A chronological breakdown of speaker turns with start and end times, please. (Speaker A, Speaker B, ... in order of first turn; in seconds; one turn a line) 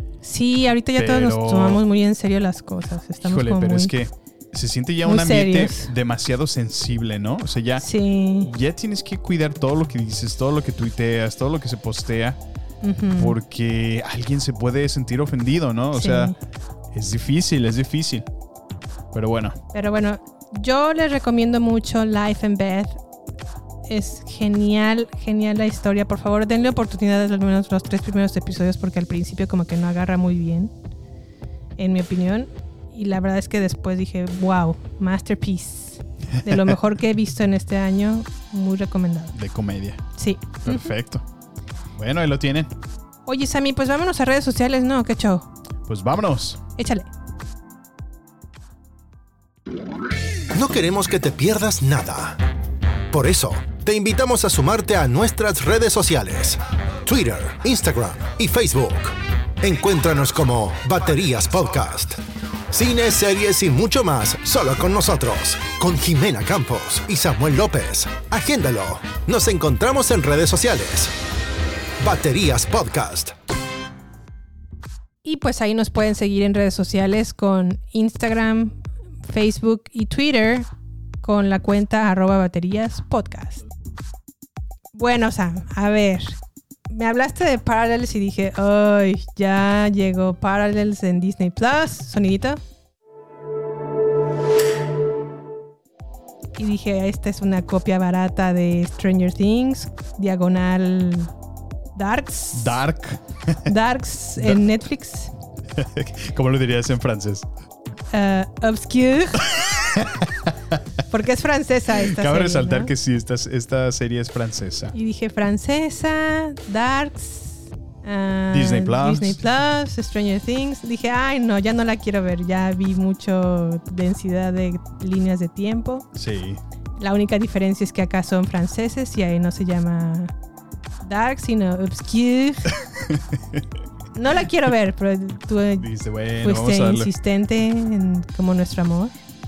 Speaker A: 0.2-3.9
Speaker B: 1.0-1.8
Speaker B: 3.2-7.8
Speaker A: 5.0-5.9
Speaker A: 7.8-8.5
Speaker B: 8.4-12.4
Speaker A: 12.8-13.3
Speaker B: 13.2-16.3
Speaker A: 15.9-16.3
Speaker B: 16.9-18.3
Speaker B: 19.1-19.6
Speaker A: 19.7-23.0
Speaker A: 23.9-30.7
Speaker A: 31.8-39.3
Speaker B: 39.3-40.0
Speaker A: 40.2-40.9
Speaker B: 40.6-41.2
Speaker B: 42.0-42.7
Speaker A: 43.3-45.5
Speaker B: 45.9-46.6
Speaker A: 46.8-47.1
Speaker C: 50.5-52.4
Speaker C: 53.1-71.1
Speaker C: 72.0-73.3
Speaker A: 75.2-80.7
Speaker A: 81.2-83.6
Speaker A: 84.9-86.4
Speaker A: 86.9-92.6
Speaker A: 96.6-101.3
Speaker A: 102.0-102.8
Speaker B: 102.5-103.7
Speaker A: 103.7-105.3
Speaker B: 105.8-107.5
Speaker A: 108.1-109.5
Speaker B: 109.5-110.7
Speaker A: 111.1-112.9
Speaker B: 112.0-115.0
Speaker A: 114.9-126.1
Speaker B: 118.5-119.4
Speaker B: 126.2-126.6
Speaker A: 127.0-130.3
Speaker A: 131.0-132.7
Speaker B: 132.9-133.7
Speaker A: 134.2-135.9
Speaker B: 135.8-137.1
Speaker A: 136.4-139.2